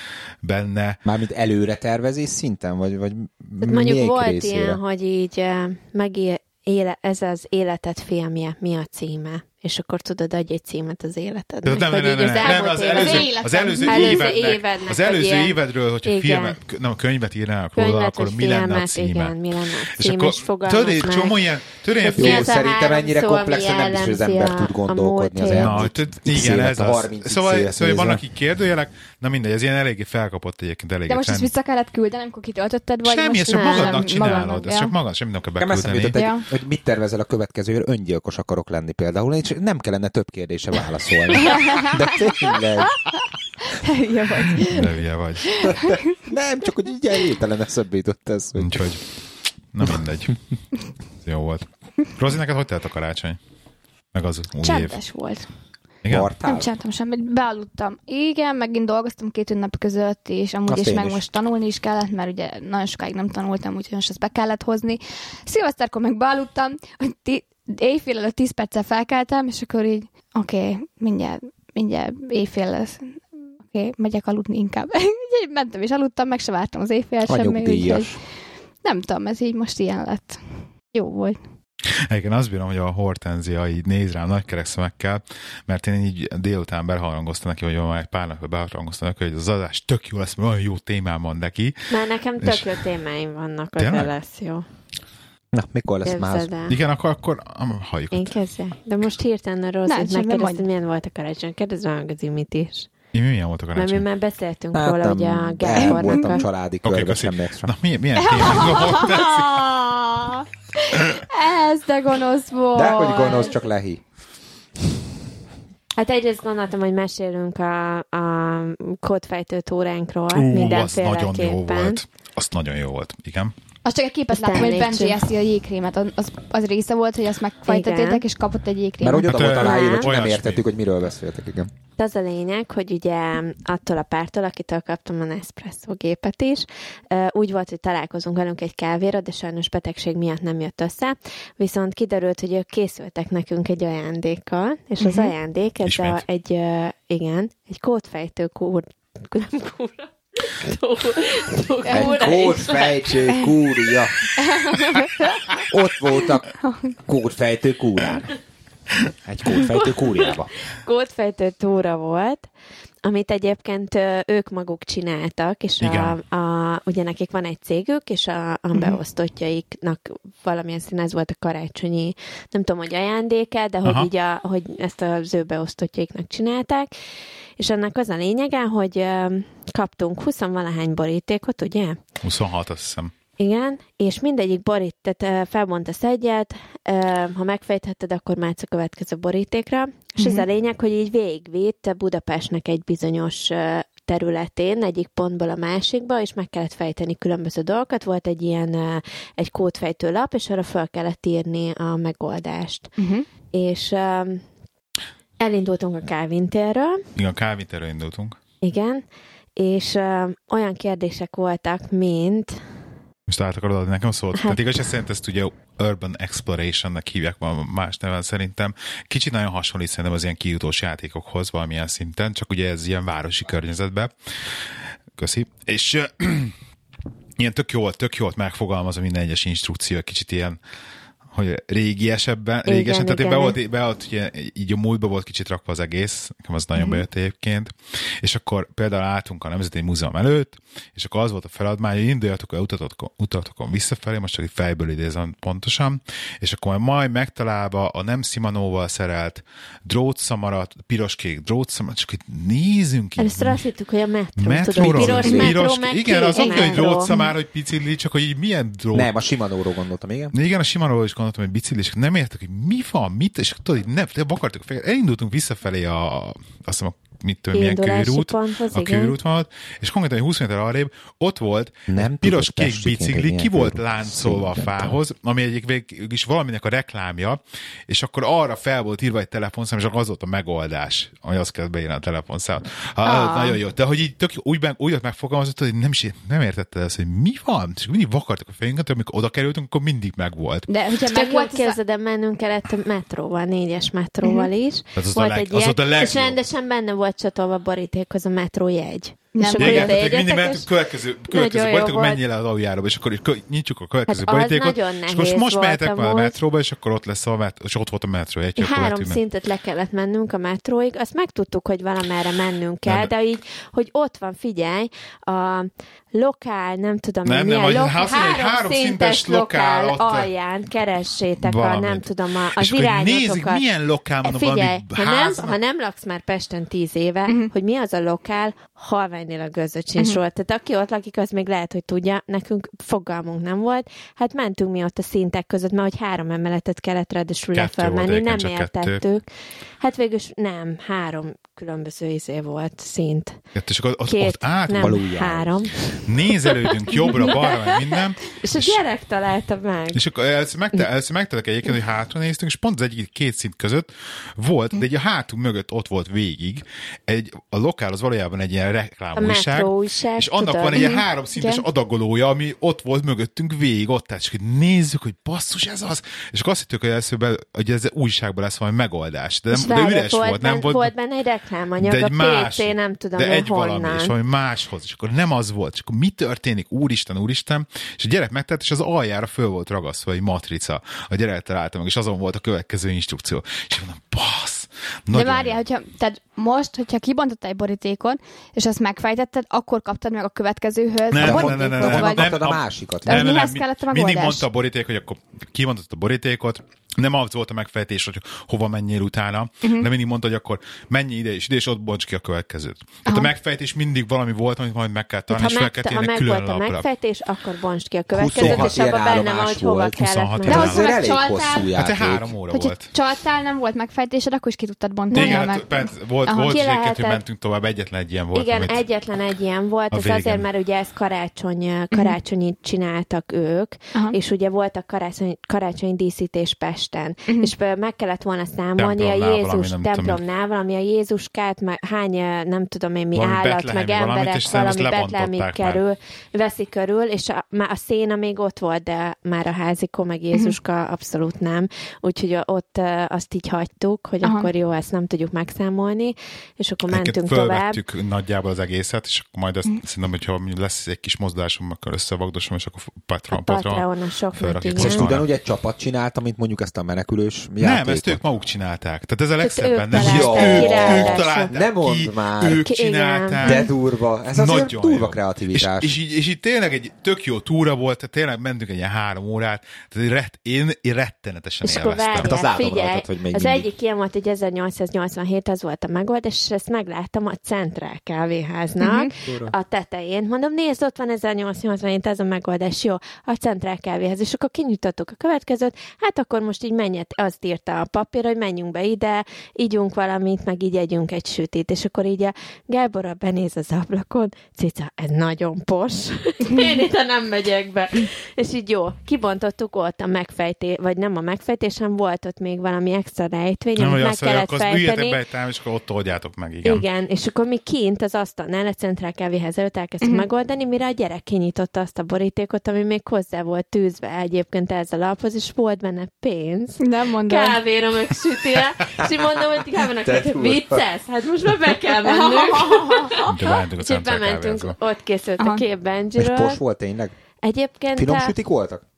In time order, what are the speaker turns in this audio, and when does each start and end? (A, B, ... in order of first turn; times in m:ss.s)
0:00.4-0:01.0 A
0:01.0-0:04.8 B
0:03.6-0:16.6 C
0:11.6-0:22.5 A
0:12.4-0:14.4 D
0:17.8-0:21.4 C
0:22.0-0:25.8 C
0:22.2-0:28.2 B
0:25.5-0:31.5 A
0:31.1-0:34.9 D
0:33.0-0:36.2 A
0:33.5-0:34.0 C
0:35.6-0:43.0 B
0:36.2-0:36.4 D
0:41.5-0:42.6 D
0:43.6-0:44.9 D
0:44.7-0:45.7 A
0:45.5-0:45.9 D
0:45.6-0:48.7 B
0:48.6-0:49.0 A
0:49.7-0:50.4 A
0:51.2-0:53.4 A
0:54.1-0:55.0 A
0:54.6-0:55.5 D
0:56.0-0:56.3 A
0:56.1-0:56.7 B
0:56.4-1:18.2 D
1:00.7-1:01.2 B
1:17.2-1:18.2 B
1:18.8-1:20.4 D
1:20.9-1:21.4 D
1:22.1-1:31.9 A
1:31.9-1:34.7 C
1:32.4-1:32.7 A
1:33.8-1:34.1 A
1:35.5-1:36.5 B
1:36.0-1:36.8 C
1:36.7-1:38.4 A
1:38.1-1:42.9 C
1:39.9-1:40.6 D
1:43.1-1:44.0 A
1:43.8-1:46.4 C
1:44.7-1:47.7 B
1:45.8-1:46.4 D
1:46.8-1:49.6 A
1:48.2-1:53.6 D
1:52.7-1:54.0 B
1:56.0-2:02.0 C
2:00.3-2:03.5 A
2:03.8-2:09.4 D
2:04.3-2:05.2 C
2:07.7-2:08.2 C
2:09.0-2:11.7 B
2:09.2-2:10.6 A
2:09.6-2:10.1 C
2:12.0-2:33.0 C
2:25.0-2:25.3 D
2:25.8-2:26.2 A
2:31.8-2:32.8 D
2:31.9-2:34.3 B
2:34.4-2:35.6 D
2:35.6-2:36.5 B
2:36.6-2:36.9 D
2:37.1-2:38.4 B
2:39.2-2:40.5 B
2:39.6-2:42.5 C
2:43.0-2:56.9 C
2:45.8-2:46.2 A
2:48.7-2:49.0 D
2:53.8-2:54.1 A
2:57.6-3:02.0 C
3:02.2-3:03.1 A
3:03.4-3:22.9 C
3:10.2-3:10.4 D
3:23.0-3:23.3 D
3:23.5-3:24.4 C
3:25.4-3:27.0 C
3:27.2-3:28.4 A
3:28.6-3:29.0 C
3:29.6-3:32.6 C
3:33.3-3:46.6 A
3:47.4-3:50.6 A
3:51.3-4:13.6 A
3:52.7-3:53.6 C
3:56.8-3:57.0 D
4:13.2-4:17.1 C
4:14.4-4:19.1 A
4:14.8-4:15.6 B
4:16.3-4:17.4 D
4:18.9-4:20.3 B
4:20.3-4:50.7 A
4:27.5-4:29.1 C
4:31.9-4:35.0 B
4:43.0-4:43.6 D
4:50.7-4:51.8 D
4:51.1-5:00.7 C
4:54.2-4:54.5 D
4:55.0-4:56.4 A
4:59.4-5:00.1 D
4:59.6-5:09.2 A
5:01.3-5:02.2 C
5:04.1-5:06.4 C
5:08.6-5:23.6 C
5:17.2-5:20.3 A
5:21.4-5:25.6 A
5:24.2-5:39.2 C
5:37.5-5:39.0 A
5:39.8-5:43.4 C
5:43.6-5:45.0 A
5:44.1-5:46.0 C
5:44.8-5:45.7 B
5:45.9-5:48.8 A
5:46.5-5:47.8 C
5:48.4-5:50.0 C
5:49.9-6:10.9 A
5:59.2-6:00.9 C
6:00.7-6:01.6 D
6:09.5-6:14.1 C
6:11.8-6:25.6 A
6:25.1-6:32.3 D
6:31.1-6:46.9 A
6:31.2-6:33.3 B
6:33.1-6:34.4 D
6:43.1-6:43.3 D
6:45.3-6:50.7 C
6:48.1-6:52.3 B
6:48.4-6:48.8 A
6:50.0-6:50.9 A
6:50.5-6:51.7 D
6:51.8-6:52.9 A
6:52.5-6:56.6 D
6:55.1-6:55.5 C
6:55.1-6:58.8 A
6:56.4-6:57.2 C
6:58.3-7:27.8 C
6:59.9-7:00.4 A
7:08.8-7:10.2 A
7:13.2-7:15.8 A
7:24.2-7:24.5 D
7:26.9-7:35.3 A
7:33.3-7:35.1 C
7:34.8-7:38.2 B
7:37.6-7:43.7 A
7:39.4-7:41.6 C
7:39.9-7:42.6 B
7:42.6-7:43.6 C
7:43.4-7:45.9 B
7:44.3-7:52.3 A
7:51.6-8:25.2 C
7:52.2-7:53.7 B
7:58.8-7:59.1 D
7:59.2-7:59.5 B
8:23.8-8:26.8 A
8:26.6-8:46.6 C
8:30.0-8:30.3 D
8:36.8-8:37.6 D
8:39.0-8:39.3 B
8:40.0-8:40.9 B
8:42.0-8:43.2 D
8:43.2-8:44.8 A
8:46.2-8:47.1 B
8:47.4-8:48.3 C
8:48.0-8:48.8 B